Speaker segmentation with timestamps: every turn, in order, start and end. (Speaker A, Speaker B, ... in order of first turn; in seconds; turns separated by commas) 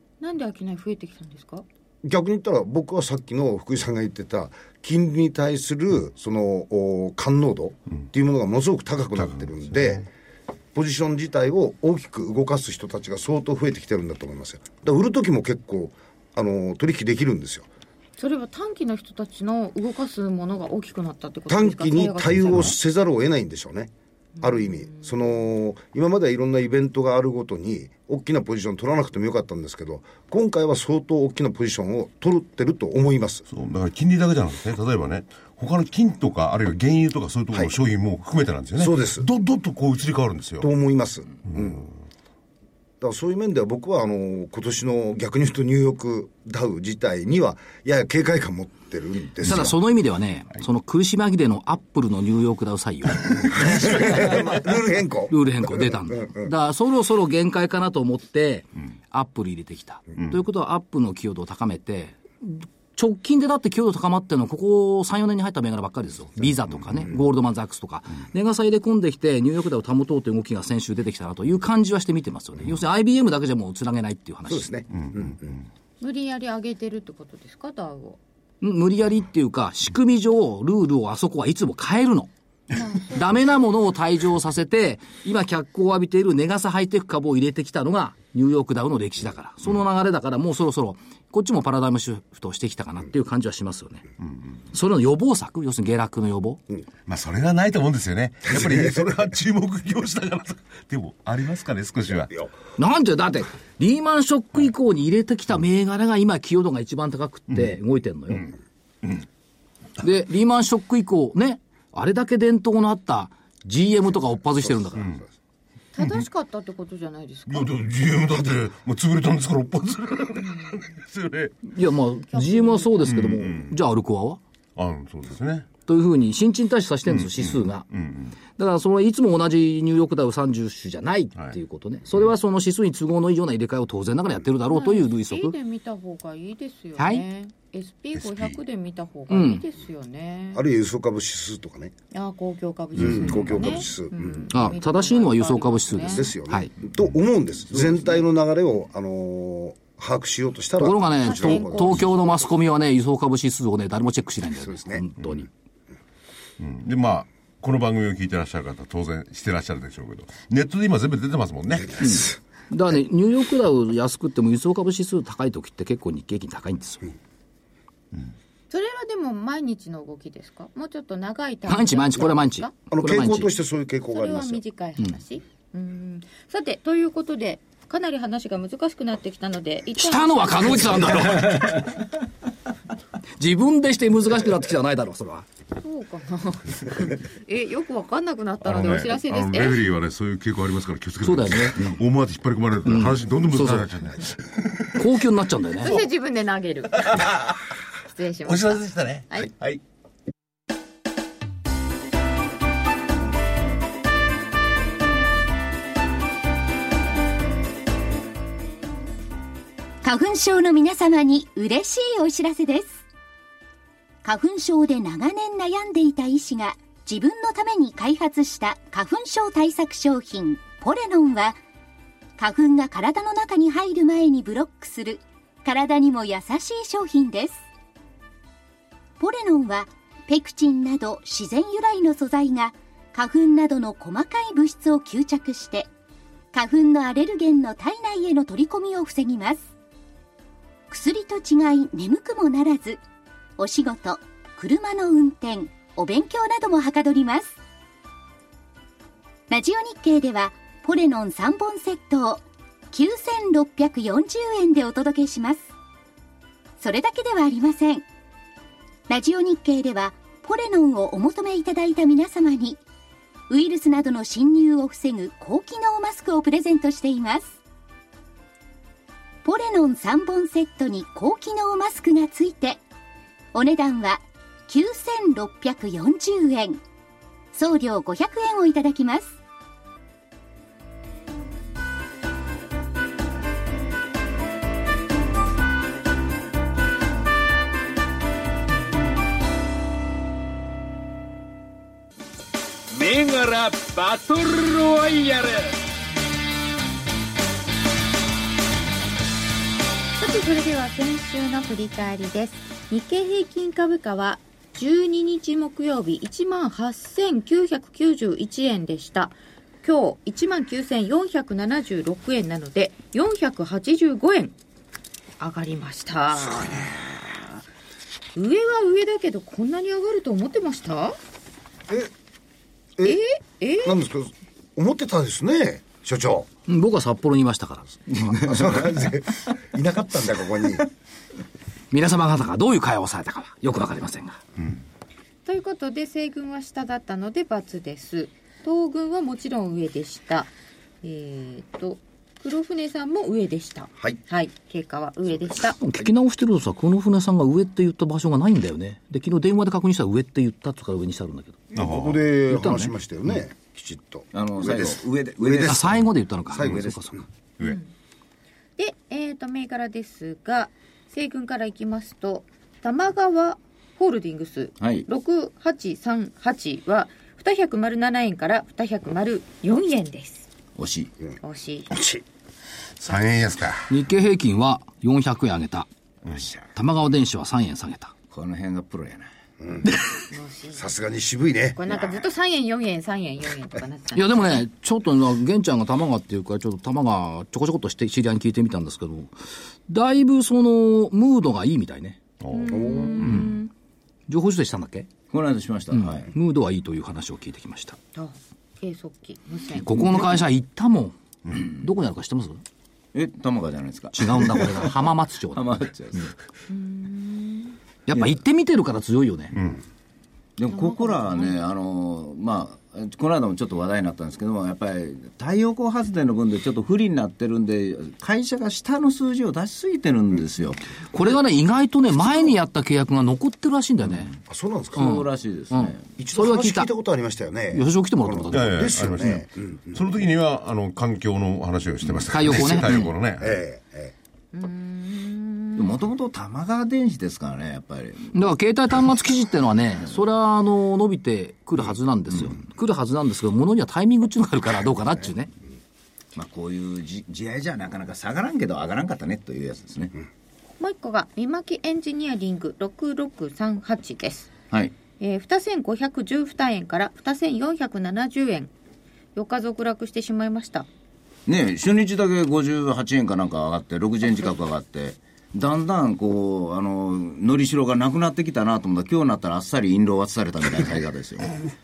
Speaker A: 0.2-1.6, Speaker B: 2.0-10.1, Speaker B: 10.7-17.7, Speaker A: 18.2-22.8, Speaker B: 21.5-33.5, Speaker A: 24.4-25.0, Speaker C: 33.5-40.7, Speaker B: 38.8-39.3, Speaker B: 40.6-41.9, Speaker C: 41.5-41.9, Speaker B: 43.0-49.8, Speaker D: 49.4-54.4, Speaker B: 53.5-56.5, Speaker C: 53.6-54.5, Speaker D: 55.3-74.7, Speaker B: 74.5-75.6, Speaker A: 76.0-78.2, Speaker D: 78.6-82.3, Speaker A: 82.7-83.4, Speaker D: 83.0-94.1, Speaker D: 94.7-96.6, Speaker C: 97.1-102.3, Speaker B: 98.5-99.1, Speaker D: 102.8-108.5, Speaker D: 110.0-115.1, Speaker B: 114.8-115.2, Speaker A: 115.9-117.8, Speaker C: 116.0-116.2, Speaker C: 117.5-121.6, Speaker A: 120.4-120.7, Speaker D: 121.7-124.4, Speaker A: 122.3-123.2, Speaker C: 123.1-123.8, Speaker C: 124.8-125.7, Speaker D: 125.9-127.9, Speaker C: 127.1-128.3, Speaker D: 128.6-135.6, Speaker A: 134.7-140.6, Speaker D: 137.0-137.2, Speaker C: 138.2-138.6, Speaker D: 139.3-139.6, Speaker B: 140.5-141.9, Speaker A: 142.1-146.3, Speaker B: 143.0-144.5, Speaker C: 143.0-143.7, Speaker D: 144.5-146.7, Speaker B: 146.1-152.0, Speaker D: 150.8-155.5, Speaker A: 151.2-152.1, Speaker B: 154.6-155.1, Speaker C: 156.6-162.2, Speaker D: 162.0-167.1, Speaker A: 168.7-172.7, Speaker D: 171.7-173.5, Speaker B: 172.9-174.6, Speaker A: 174.1-181.4, Speaker D: 180.0-181.9, Speaker D: 183.4-185.5, Speaker A: 185.8-189.9, Speaker C: 188.6-195.0, Speaker D: 191.2-191.9, Speaker D: 192.9-193.9, Speaker D: 194.9-196.0, Speaker A: 195.8-197.4, Speaker C: 197.0-197.6, Speaker A: 198.1-199.5, Speaker C: 198.4-199.8, Speaker E: 210.0-213.0, Speaker E: 214.2-221.6, Speaker E: 222.4-227.6, Speaker E: 229.2-235.9, Speaker E: 236.5-239.7, Speaker E: 240.9-243.0, Speaker E: 243.6-247.6, Speaker E: 249.5-255.7, Speaker E: 256.8-258.1, Speaker E: 259.1-262.8, Speaker E: 263.5-267.6, Speaker E: 269.4-272.8, Speaker E: 273.5-276.8, Speaker E: 277.5-279.3, Speaker F: 292.9-295.8, Speaker A: 300.2-314.5, Speaker A: 315.4-317.1, Speaker A: 318.4-321.2, Speaker A: 323.0-324.0, Speaker B: 323.8-326.5, Speaker D: 326.7-328.0, Speaker G: 328.1-328.9, Speaker B: 328.4-330.9, Speaker D: 331.9-334.4, Speaker A: 335.4-345.8, Speaker D: 345.8-351.6, Speaker B: 351.7-357.2, Speaker C: 351.8-352.2, Speaker D: 352.5-352.9, Speaker G: 354.3-356.0, Speaker D: 355.7-357.2, Speaker G: 356.6-356.9, Speaker A: 357.6-357.9, Speaker A: 358.8-370.5, Speaker G: 364.8-365.1, Speaker G: 370.8-371.1, Speaker A: 371.4-371.9, Speaker B: 371.9-372.2, Speaker C: 373.0-373.9, Speaker D: 373.9-375.9, Speaker D: 376.8-378.1, Speaker G: 378.3-379.3, Speaker B: 379.6-379.9, Speaker A: 380.3-380.8, Speaker B: 380.7-381.8, Speaker A: 381.8-384.6, Speaker D: 384.1-389.4, Speaker D: 389.9-392.2, Speaker C: 392.4-393.4, Speaker A: 392.5-393.7, Speaker B: 392.9-393.2, Speaker D: 393.2-393.6, Speaker D: 394.3-395.1, Speaker G: 395.3-396.3, Speaker D: 395.9-398.0, Speaker A: 398.1-400.2, Speaker D: 399.8-402.6, Speaker G: 403.1-405.0, Speaker D: 404.1-406.3, Speaker G: 405.5-406.3, Speaker A: 406.7-407.8, Speaker D: 408.1-409.6, Speaker C: 409.6-409.8, Speaker G: 410.6-420.9, Speaker A: 410.7-411.6, Speaker D: 421.1-424.3, Speaker B: 424.5-425.1, Speaker G: 424.9-426.0, Speaker D: 424.9-426.9, Speaker B: 426.2-430.2, Speaker D: 427.7-429.0, Speaker C: 428.5-433.6, Speaker D: 432.3-433.1, Speaker B: 433.4-434.1, Speaker A: 434.5-436.0, Speaker G: 435.8-438.4, Speaker D: 438.3-445.5, Speaker G: 446.4-450.2, Speaker A: 450.8-454.5, Speaker A: 455.2-458.7, Speaker A: 459.4-460.9, Speaker G: 461.5-471.6